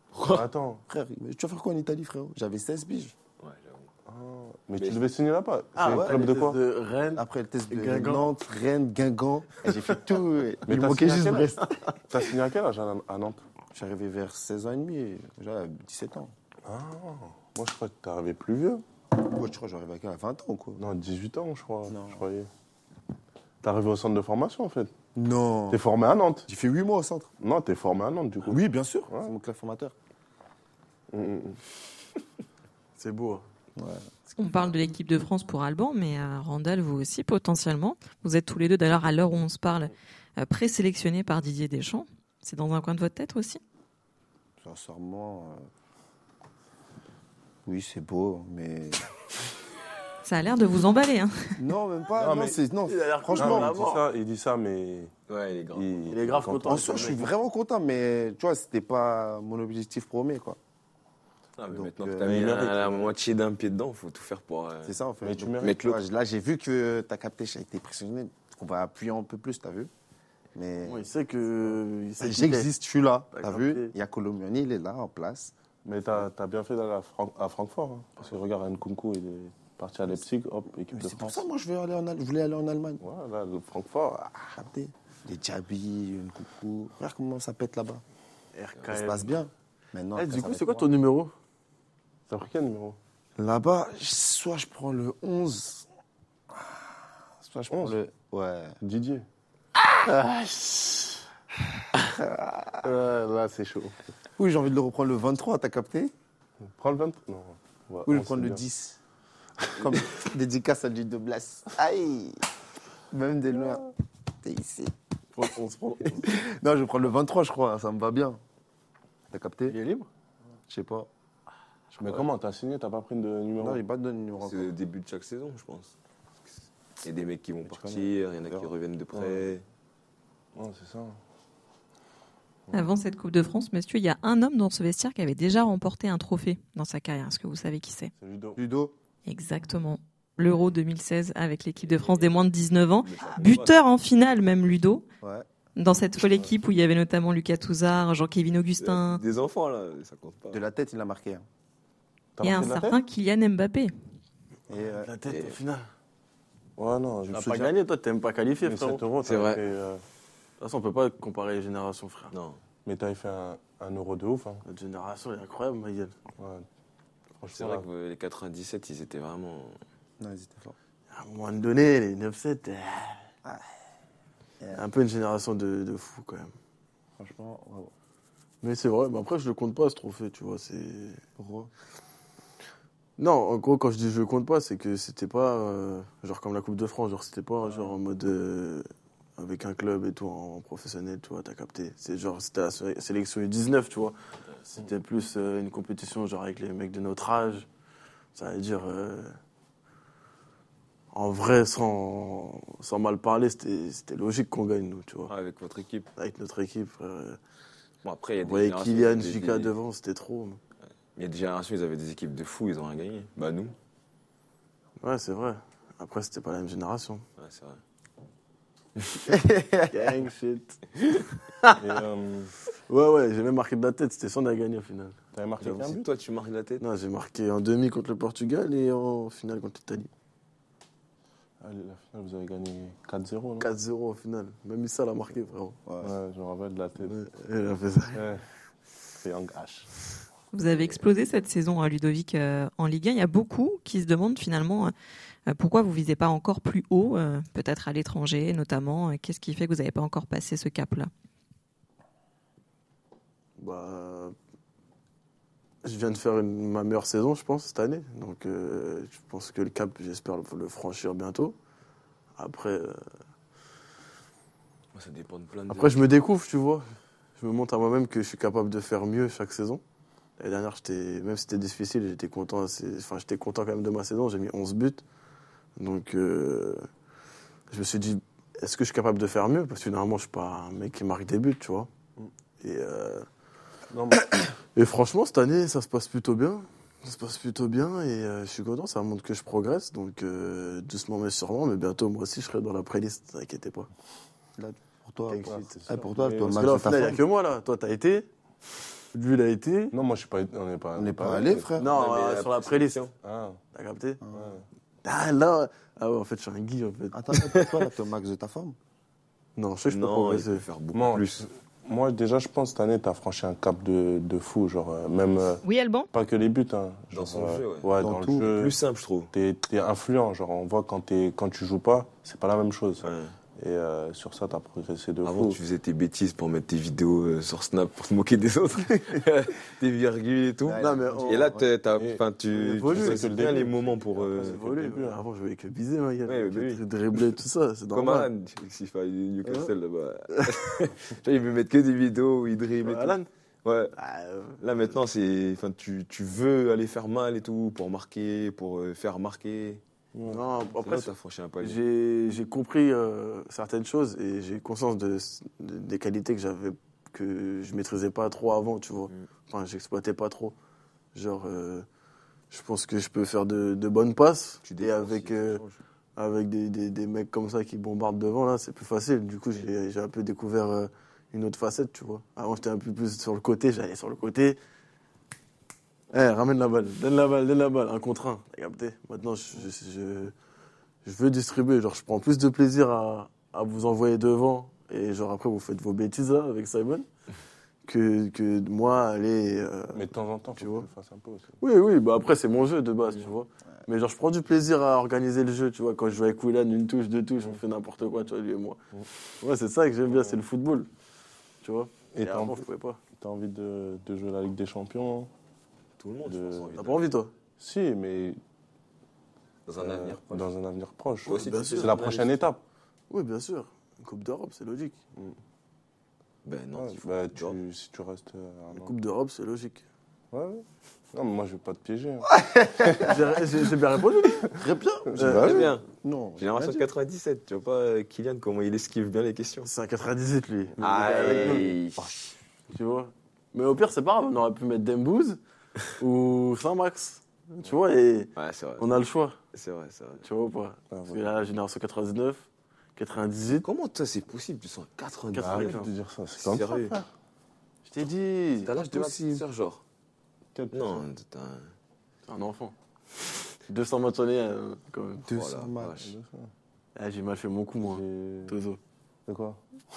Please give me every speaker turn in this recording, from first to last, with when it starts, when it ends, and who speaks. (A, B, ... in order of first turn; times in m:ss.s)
0:00.3-0:00.8 A
0:00.9-0:03.1 B
0:03.4-0:03.9 C
0:04.1-0:06.6 A
0:04.8-0:05.0 C
0:05.8-0:08.3 D
0:05.8-0:06.2 B
0:07.2-0:11.6 B
0:10.7-0:11.5 A
0:11.6-0:11.9 D
0:12.1-0:13.4 A
0:13.7-0:16.3 B
0:16.6-0:18.8 A
0:19.1-0:20.8 B
0:20.8-0:22.5 A
0:21.9-0:22.2 B
0:23.6-0:24.9 A
0:25.1-0:25.8 B
0:25.7-0:26.5 A
0:26.5-0:27.3 B
0:27.4-0:29.3 A
0:28.5-0:29.9 B
0:31.1-0:31.6 A
0:33.0-0:33.4 D
0:33.8-0:34.0 B
0:34.4-0:43.6 E
0:44.6-0:45.6 B
0:47.6-0:49.0 B
0:50.2-0:51.5 E
0:51.6-0:53.8 B
0:52.2-0:52.6 A
0:52.8-0:54.0 D
0:53.3-0:55.1 A
0:55.3-0:56.1 C
0:55.7-0:57.2 A
0:56.1-0:57.2 D
0:56.6-1:00.6 B
1:01.6-1:04.9 C
1:01.7-1:02.6 B
1:02.3-1:02.6 A
1:04.8-1:09.9 B
1:05.2-1:05.8 A
1:05.6-1:06.0 C
1:10.5-1:11.0 B
1:10.8-1:12.7 D
1:12.2-1:15.5 B
1:13.3-1:13.9 D
1:15.8-1:21.4 A
1:20.9-1:23.0 B
1:23.0-1:24.6 A
1:24.6-1:28.0 B
1:28.5-1:29.4 D
1:28.9-1:30.9 B
1:30.2-1:31.3 D
1:32.3-1:33.0 A
1:33.4-1:35.8 B
1:37.4-1:38.8 B
1:38.8-1:39.2 A
1:40.0-1:40.6 D
1:40.8-1:41.0 A
1:42.0-1:42.8 B
1:42.8-1:44.0 A
1:44.4-1:46.1 B
1:46.6-1:48.6 A
1:48.0-1:49.0 B
1:49.8-1:52.4 B
1:53.1-1:53.9 B
1:54.4-1:54.9 B
1:55.4-1:56.2 D
1:56.1-1:58.4 B
1:59.3-1:59.8 B
1:59.7-2:00.1 D
2:00.7-2:01.1 B
2:01.9-2:02.2 D
2:02.0-2:03.8 A
2:03.6-2:04.7 B
2:04.4-2:05.9 C
2:07.0-2:09.6 C
2:07.6-2:08.7 B
2:09.1-2:09.5 A
2:10.6-2:11.2 A
2:12.7-2:18.1 E
2:18.2-2:18.6 A
2:18.6-2:18.9 B
2:19.2-2:25.0 E
2:21.8-2:22.5 C
2:23.0-2:23.8 C
2:25.2-2:25.4 B
2:25.8-2:29.2 E
2:28.8-2:30.6 C
2:30.5-2:31.4 B
2:32.4-2:33.0 A
2:32.4-2:33.9 E
2:34.7-2:35.1 B
2:34.7-2:35.9 D
2:35.3-2:35.6 C
2:36.8-2:37.6 A
2:37.3-2:39.0 D
2:37.3-2:37.7 B
2:38.6-2:40.0 A
2:39.2-2:39.6 C
2:40.6-2:42.3 D
2:42.3-2:42.6 C
2:42.8-2:44.6 A
2:44.6-2:46.1 D
2:46.4-2:46.6 A
2:47.4-2:47.8 A
2:47.5-2:49.8 C
2:50.2-2:50.8 B
2:51.1-2:53.3 D
2:54.7-2:56.5 D
2:57.2-2:57.9 B
2:58.6-3:01.2 D
3:01.4-3:01.7 B
3:03.2-3:14.1 D
3:14.6-3:17.7 D
3:18.3-3:19.4 D
3:21.1-3:25.3 D
3:25.3-3:26.1 C
3:26.2-3:27.4 D
3:28.0-3:29.7 C
3:28.4-3:30.6 D
3:31.2-3:33.7 C
3:35.0-3:37.2 D
3:37.4-3:37.8 C
3:39.3-3:40.2 B
3:39.9-3:41.8 D
3:41.8-3:42.5 A
3:42.9-3:45.2 D
3:45.3-3:46.0 A
3:45.6-3:46.8 C
3:46.8-3:50.1 D
3:51.6-3:53.7 A
3:53.6-3:55.8 D
3:55.8-3:56.2 B
3:56.0-3:57.1 A
3:57.0-3:58.2 D
3:58.1-3:58.4 A
3:59.1-3:59.9 A
4:00.5-4:04.9 E
4:05.5-4:11.1 E
4:13.6-4:14.3 D
4:15.8-4:21.6 D
4:22.4-4:23.0 D
4:24.9-4:26.0 C
4:25.7-4:26.8 D
4:27.4-4:29.8 D
4:30.4-4:35.0 D
4:35.8-4:36.9 D
4:37.7-4:41.9 D
4:42.6-4:43.3 D
4:43.9-4:44.3 A
4:44.1-4:53.9 D
4:54.6-4:57.2 B
4:55.3-4:55.8 D
4:55.5-4:57.1 A
4:56.4-4:58.2 D
4:59.1-4:59.9 D
4:59.9-5:01.6 A
5:00.9-5:01.9 B
5:01.5-5:03.1 C
5:01.8-5:03.0 D
5:03.2-5:03.6 A
5:03.7-5:04.2 D
5:04.2-5:04.5 B
5:04.3-5:04.6 A
5:05.0-5:07.2 D
5:07.1-5:08.8 B
5:09.6-5:10.6 D
5:09.8-5:11.5 C
5:10.9-5:15.6 A
5:15.6-5:16.1 E
5:16.1-5:18.8 A
5:17.1-5:19.3 C
5:18.0-5:18.5 B
5:19.3-5:25.6 A
5:23.0-5:23.3 C
5:25.2-5:34.6 C
5:30.6-5:31.7 B
5:30.8-5:31.5 D
5:32.0-5:35.2 A
5:32.6-5:33.4 D
5:34.4-5:38.3 D
5:36.2-5:37.3 C
5:37.9-5:43.9 C
5:39.4-5:39.7 D
5:40.3-5:40.7 D
5:42.8-5:43.3 D
5:43.9-5:44.6 D
5:44.6-5:49.8 C
5:50.1-5:50.4 A
5:50.3-6:00.5 D
5:50.8-5:51.8 C
6:01.1-6:01.8 D
6:02.5-6:05.6 D
6:04.6-6:05.8 C
6:06.2-6:14.6 D
6:16.1-6:20.3 D
6:21.0-6:27.0 D
6:27.8-6:30.0 D
6:29.9-6:31.5 A
6:30.5-6:30.9 D
6:31.6-6:38.8 D
6:39.4-6:40.9 D
6:40.1-6:40.4 A
6:41.6-6:43.0 D
6:42.1-6:42.6 A
6:43.2-6:45.3 A
6:46.0-6:47.0 C
6:46.2-6:46.7 A
6:46.8-6:47.3 D
6:47.6-6:48.4 A
6:49.7-6:50.5 C
6:49.8-6:52.6 A
6:51.3-6:52.1 D
6:51.3-6:52.3 C
6:53.1-6:55.0 D
6:56.4-6:57.6 C
6:56.8-6:58.9 A
6:58.7-6:59.8 D
7:00.3-7:02.3 A
7:02.3-7:03.3 B
7:03.0-7:04.5 D
7:04.5-7:06.9 B
7:05.2-7:05.5 D
7:05.2-7:05.7 A
7:05.4-7:05.8 C
7:06.4-7:09.7 C
7:09.6-7:11.7 D
7:10.8-7:12.3 C
7:12.7-7:15.4 D
7:16.0-7:19.4 D
7:18.4-7:19.0 C
7:19.5-7:20.2 C
7:20.2-7:22.4 D
7:20.9-7:21.3 A
7:23.0-7:23.6 D
7:23.6-7:25.8 C
7:25.3-7:25.9 D
7:25.4-7:27.1 A
7:26.4-7:26.9 C
7:27.8-7:28.7 D
7:28.6-7:29.8 C
7:28.9-7:29.4 B
7:30.5-7:31.1 A
7:30.7-7:31.7 C
7:32.2-7:32.7 D
7:33.7-7:35.3 D
7:35.3-7:36.1 B
7:35.3-7:36.1 C
7:36.0-7:36.5 A
7:37.0-7:38.8 D
7:37.8-7:38.5 A
7:39.3-7:39.6 A